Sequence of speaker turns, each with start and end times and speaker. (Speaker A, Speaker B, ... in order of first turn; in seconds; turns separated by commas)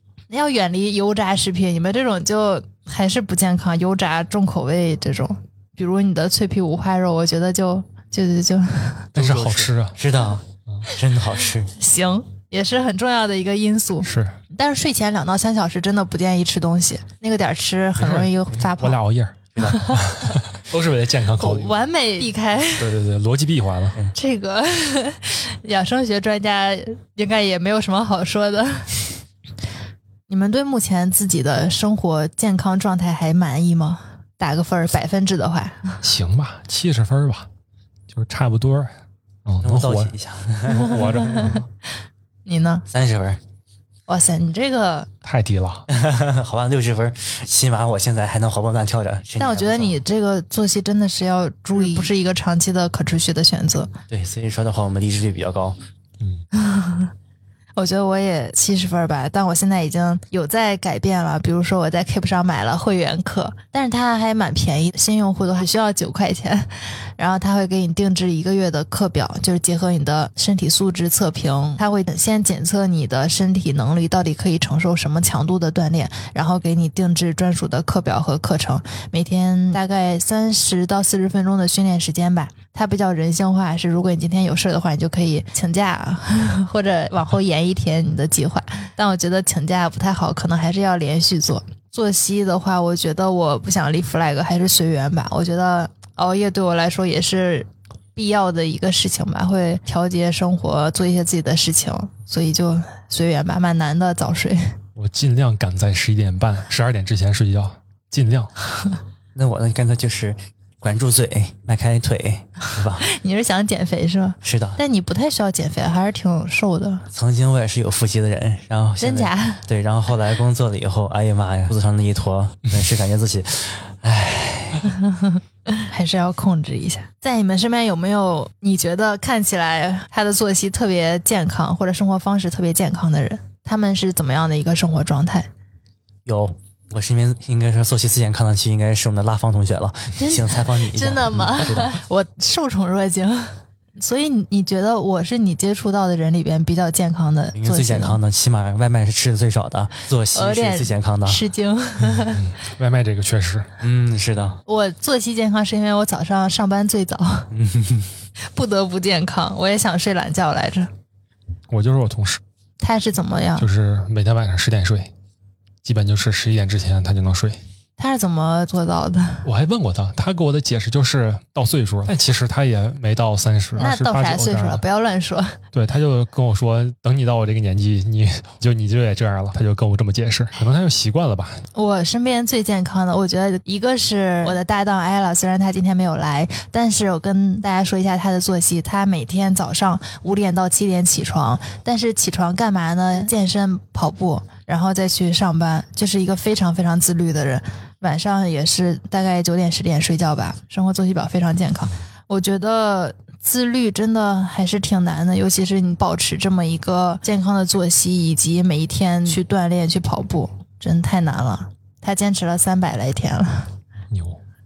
Speaker A: 0.3-9.1, Speaker B: 9.1-11.7, Speaker C: 9.1-10.0, Speaker A: 11.8-19.0, Speaker C: 14.0-14.4, Speaker C: 18.0-21.8, Speaker B: 19.5-19.9, Speaker A: 19.6-20.0, Speaker A: 21.4-22.9, Speaker C: 22.8-24.0, Speaker A: 24.1-29.1, Speaker A: 30.3-36.0, Speaker C: 36.0-37.5, Speaker C: 38.1-38.9, Speaker C: 39.5-41.7, Speaker B: 39.6-41.1, Speaker A: 40.7-41.6, Speaker A: 42.5-42.9, Speaker B: 42.9-43.4, Speaker A: 44.1-45.1, Speaker C: 45.2-45.8, Speaker B: 45.9-50.0, Speaker A: 49.4-53.9, Speaker B: 54.1-55.8, Speaker A: 56.5-57.1, Speaker A: 57.8-104.7, Speaker C: 105.0-108.5, Speaker B: 109.3-113.0, Speaker A: 113.0-117.0, Speaker B: 114.4-114.8, Speaker B: 117.1-125.0, Speaker A: 119.0-119.6, Speaker A: 125.0-135.5, Speaker B: 136.2-142.0, Speaker A: 140.2-148.2, Speaker B: 147.5-151.4, Speaker A: 150.3-152.4, Speaker C: 152.1-153.7, Speaker B: 153.8-154.6, Speaker A: 154.7-157.5, Speaker B: 157.5-158.1, Speaker A: 158.5-160.9, Speaker C: 161.7-162.4, Speaker A: 162.8-163.7, Speaker C: 163.6-165.1, Speaker C: 165.8-167.6, Speaker A: 168.0-169.4, Speaker C: 169.4-174.8, Speaker A: 173.7-175.6, Speaker C: 175.7-181.6, Speaker A: 181.7-213.7, Speaker C: 214.1-214.4